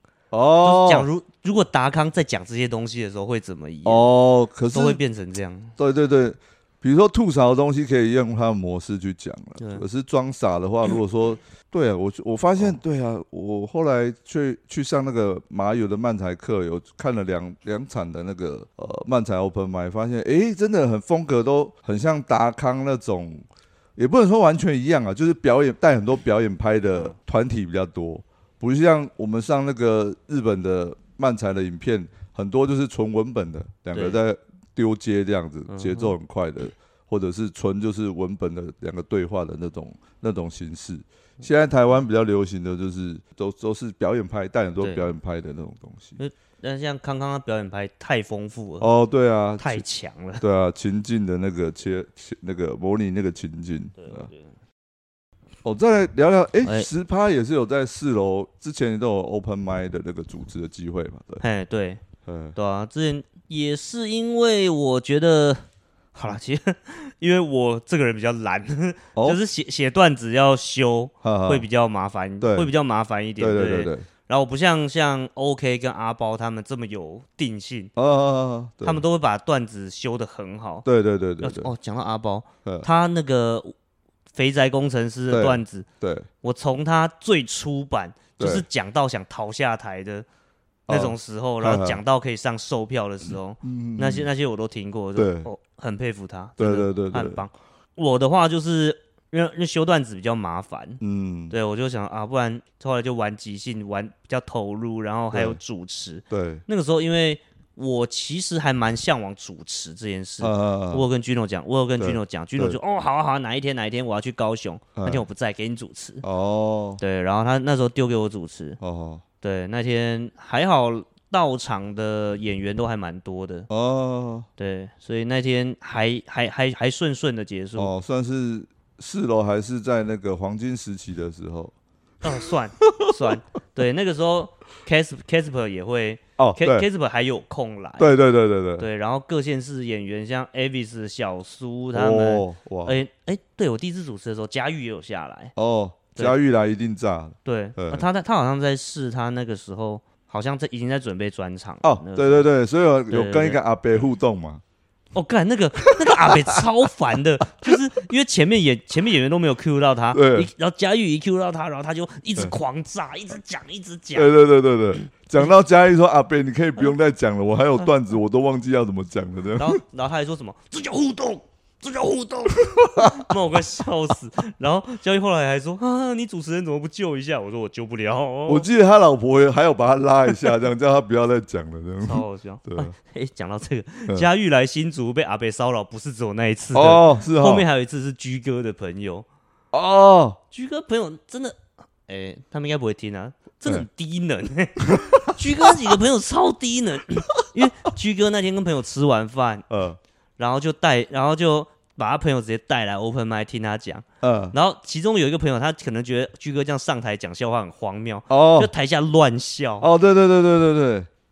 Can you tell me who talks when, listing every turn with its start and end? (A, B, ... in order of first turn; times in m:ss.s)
0:00.3-0:01.1 A
0:00.6-0:04.1 B
0:03.8-0:05.0 A
0:04.7-0:05.8 B
0:05.8-0:46.2 A
0:33.9-0:34.2 B
0:35.7-0:36.1 B
0:44.8-0:45.1 B
0:46.2-0:48.9 B
0:48.8-0:49.8 A
0:49.6-0:50.4 B
0:50.4-0:54.3 A
0:54.0-0:54.5 B
0:55.6-1:01.4 A
0:56.6-0:56.9 B
1:01.4-1:02.0 B
1:02.2-1:02.6 A
1:02.6-1:17.9 B
1:09.2-1:09.4 A
1:11.2-1:11.6 A
1:12.4-1:12.7 A
1:13.4-1:14.0 A
1:18.0-1:19.0 A
1:18.8-1:20.9 B
1:20.8-1:21.7 A
1:21.4-1:23.7 B
1:24.3-1:25.9 B
1:25.3-1:26.3 A
1:26.4-1:30.3 B
1:28.4-1:28.6 A
1:30.9-1:32.0 A
1:30.9-1:56.2 B
1:33.6-1:34.3 A
1:35.2-1:35.5 A
1:36.6-1:37.4 A
1:41.0-1:41.6 A
1:45.3-1:45.6 A
1:46.3-1:46.6 A
1:50.4-1:51.1 A
1:52.0-1:52.8 A
1:55.0-1:55.2 A
1:56.2-1:57.0 A
1:57.0-1:58.8 B
1:58.8-1:59.2 A
1:59.4-2:03.7 B
2:03.7-2:04.5 A
2:04.6-2:07.9 B
2:07.8-2:11.7 A
2:12.2-2:18.1 B
2:12.8-2:13.3 A
2:16.4-2:16.9 A
2:18.0-2:18.9 A
2:18.8-2:25.5 B
2:21.9-2:23.0 A
2:25.6-2:28.1 A
2:27.4-2:32.5 B
2:31.8-2:34.6 A
2:33.1-2:33.6 B
2:35.2-2:44.3 B
2:35.9-2:36.6 A
2:40.1-2:40.5 A
2:44.1-2:49.8 A
2:49.6-2:58.7 B
2:52.7-2:53.3 A
2:58.5-3:02.9 A
3:02.0-3:09.3 B
3:06.7-3:07.7 A
3:09.7-3:10.4 A
3:10.5-3:19.7 B
3:14.9-3:15.9 A
3:19.7-3:20.0 A
3:20.4-3:29.9 B
3:24.2-3:24.6 A
3:28.3-3:28.7 A
3:29.8-3:31.1 A